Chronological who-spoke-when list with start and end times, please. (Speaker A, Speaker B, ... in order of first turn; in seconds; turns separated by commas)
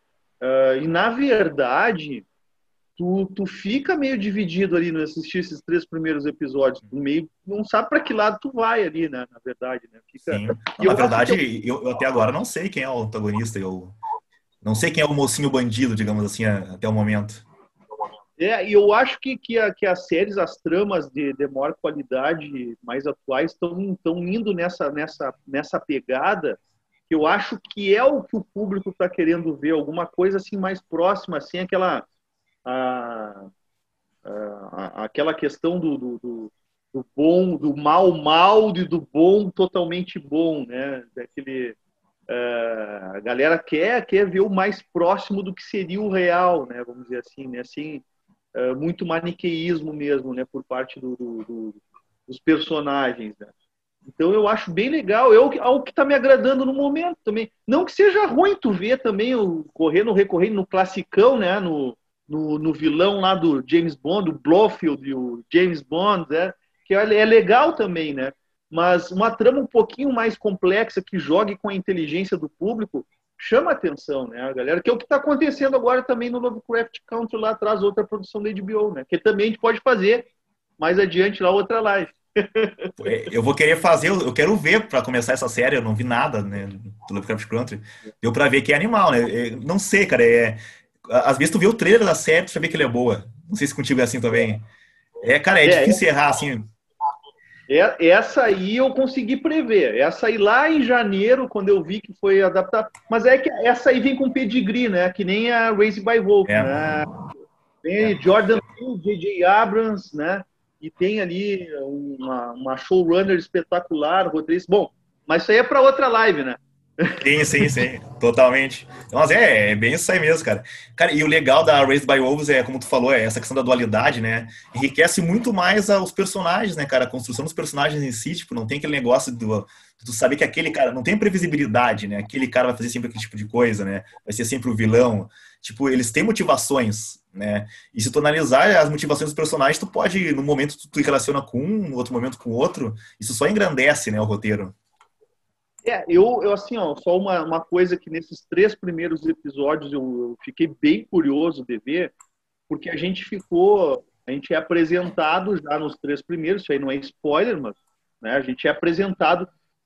Speaker A: 0.4-2.2, Speaker A: 3.0-11.4, Speaker B: 10.2-14.0, Speaker B: 14.6-17.4, Speaker A: 18.4-32.0, Speaker A: 32.6-33.5, Speaker A: 34.2-41.8, Speaker A: 42.3-48.0, Speaker A: 48.5-53.5, Speaker A: 54.0-80.3, Speaker A: 80.8-82.9, Speaker B: 83.0-94.6, Speaker B: 95.2-96.7, Speaker A: 95.6-96.0, Speaker A: 97.7-107.1, Speaker B: 106.5-107.1, Speaker A: 107.8-117.8, Speaker B: 117.2-144.7, Speaker A: 145.8-152.1, Speaker A: 152.7-159.5